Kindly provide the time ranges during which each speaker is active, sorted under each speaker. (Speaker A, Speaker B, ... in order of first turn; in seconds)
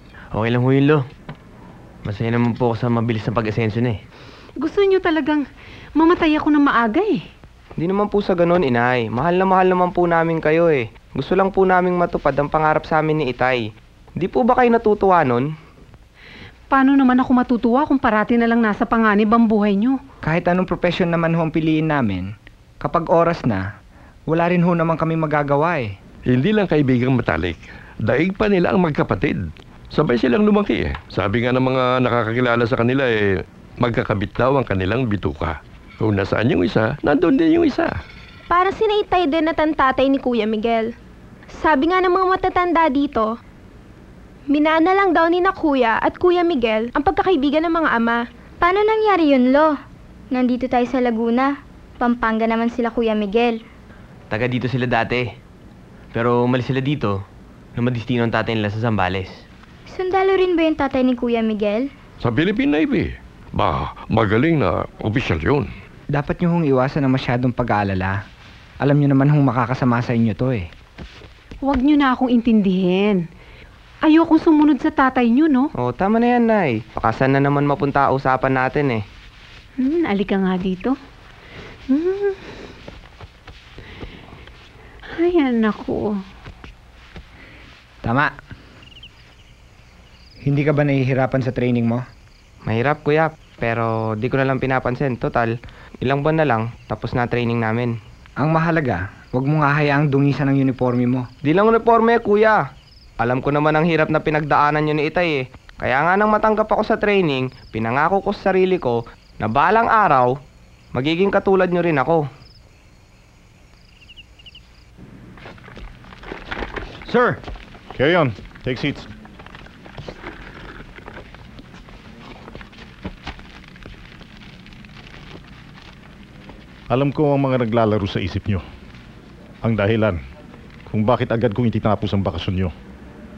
Speaker A: 0.3-1.0, 2.0-4.0, 54.3-55.3, 56.1-57.1, 57.8-59.4
Speaker B: 4.6-5.4, 6.0-7.2, 16.7-19.9, 71.6-73.2, 74.0-75.7, 79.8-80.9, 81.9-82.4, 85.1-86.0
Speaker C: 7.8-13.6, 14.2-15.5, 75.8-79.0, 92.7-97.9, 101.4-102.6, 103.2-110.3, 111.0-112.2
Speaker D: 20.2-22.3, 22.8-23.6, 24.3-25.9, 66.1-68.2, 68.8-70.7, 88.0-88.3, 90.5-92.0, 98.4-101.3, 117.1-117.4
Speaker E: 26.3-33.2, 33.8-37.9, 62.2-65.7
Speaker F: 38.5-40.9, 41.5-43.3, 44.5-48.2
Speaker G: 48.6-49.7, 50.3-53.6, 59.9-61.9
Speaker H: 117.9-119.1, 126.9-128.6, 129.6-130.2, 130.9-132.7